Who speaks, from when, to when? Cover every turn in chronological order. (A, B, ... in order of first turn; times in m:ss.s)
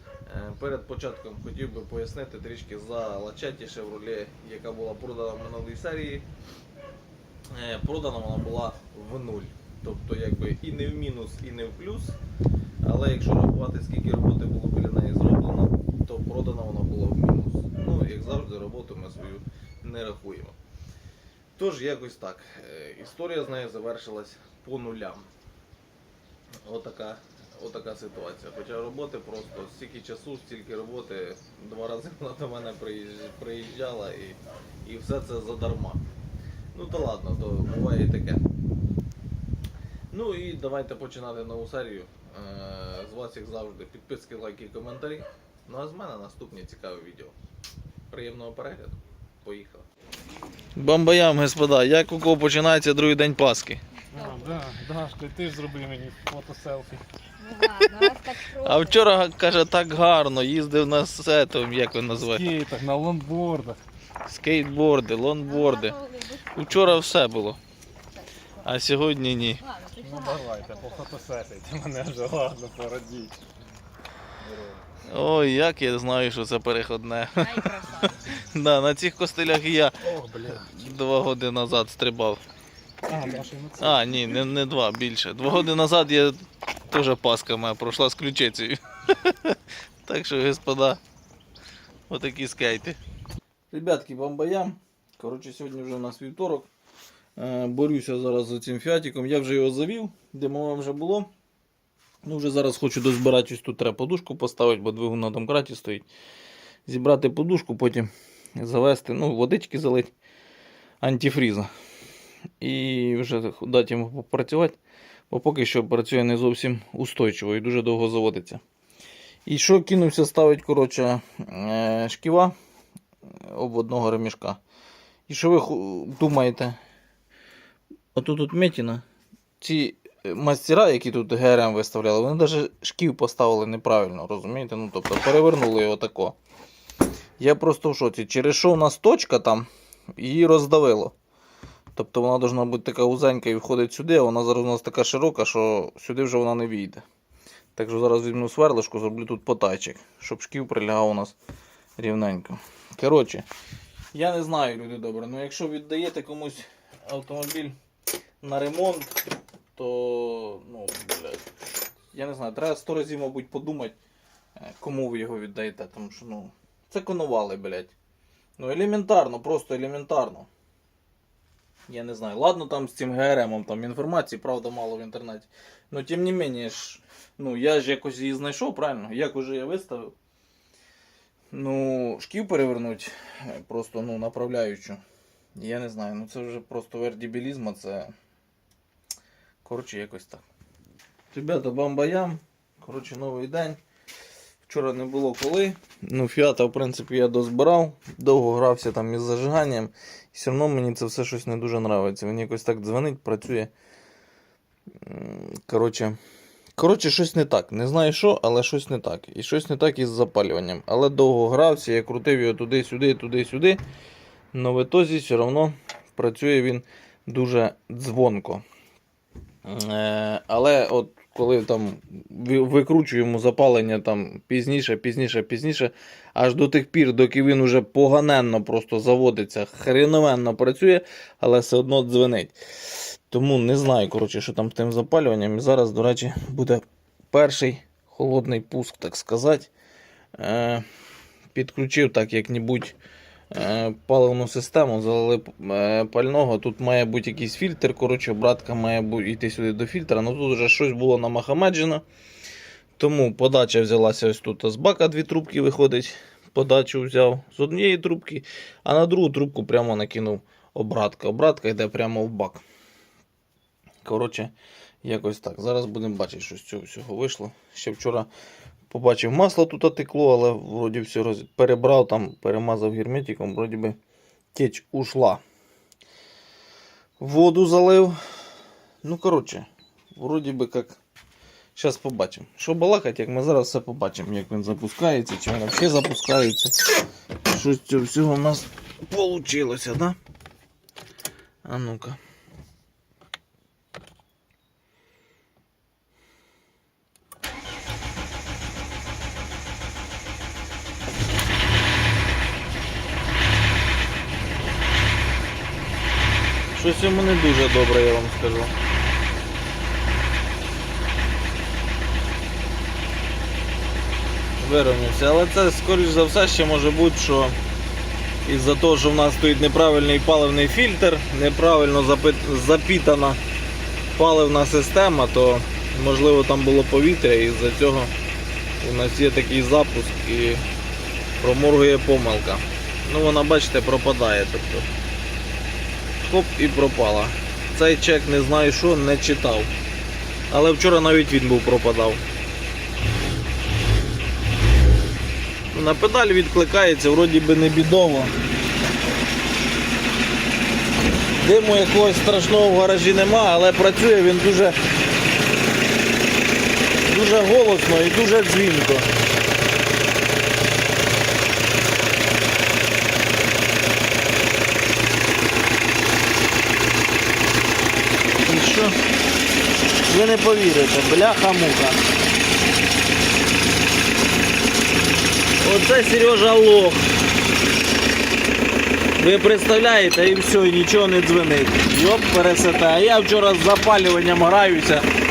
0:00.2-0:06.3 A
0:07.5-0:12.2 A
0:12.8-0:20.6 A
0:21.6-0:25.3 A
0:26.6-0:36.0 A
0:36.7-0:38.4 A
0:40.1-0:47.3 A
0:48.1-0:49.8 A
0:50.8-0:53.8 A
0:54.1-0:57.0 B
0:54.2-0:54.4 C
0:57.4-0:59.0 C
0:58.6-1:02.5 A
1:02.2-1:03.8 B
1:04.2-1:07.6 A
1:05.4-1:06.4 C
1:08.1-1:08.6 C
1:08.6-1:09.6 A
1:09.6-1:11.1 C
1:10.0-1:13.4 B
1:14.5-1:14.8 B
1:15.0-1:22.4 A
1:17.4-1:18.2 C
1:20.0-1:20.8 B
1:23.1-1:24.0 B
1:23.8-1:31.0 A
1:32.1-1:33.0 A
1:33.7-1:36.7 A
1:37.4-1:41.3 A
1:42.2-1:46.1 A
1:46.9-1:50.1 A
1:51.0-1:51.7 A
1:52.6-1:54.8 A
1:55.3-1:58.6 A
1:59.4-2:02.5 A
2:03.4-2:04.6 A
2:05.3-2:06.8 A
2:08.1-2:09.0 A
2:09.6-2:16.4 A
2:17.4-2:21.1 A
2:21.9-2:27.0 A
2:27.7-2:31.4 A
2:32.0-2:33.4 A
2:34.1-2:37.7 A
2:38.4-2:39.2 A
2:39.7-2:41.4 A
2:42.1-2:44.0 A
2:44.6-2:47.9 A
2:48.6-2:50.5 A
2:51.9-3:00.1 A
3:01.5-3:05.0 A
3:05.6-3:08.1 A
3:09.6-3:10.4 A
3:11.3-3:13.8 A
3:14.6-3:23.7 A
3:25.0-3:26.2 A
3:26.8-3:33.8 A
3:34.5-3:38.6 A
3:39.6-3:59.7 A
4:00.4-4:00.8 A
4:01.5-4:02.9 A
4:03.5-4:12.0 A
4:13.0-4:22.6 A
4:24.0-4:28.3 A
4:28.9-4:34.0 A
4:34.5-4:35.4 A
4:37.2-4:38.2 A
4:39.0-4:41.0 A
4:41.7-4:46.8 A
4:47.4-4:50.2 A
4:51.6-4:52.2 A
5:06.7-5:08.7 A
5:14.6-5:17.6 A
5:18.4-5:23.4 A
5:24.1-5:28.1 A
5:28.8-5:30.6 A
5:31.4-5:34.9 A
5:36.2-5:39.7 A
5:40.5-5:42.2 A
5:45.7-5:48.3 A
5:51.4-5:54.8 A
5:57.0-5:59.1 A
6:08.4-6:09.0 A
6:10.0-6:12.0 A
6:15.6-6:17.0 A
6:19.2-6:25.0 A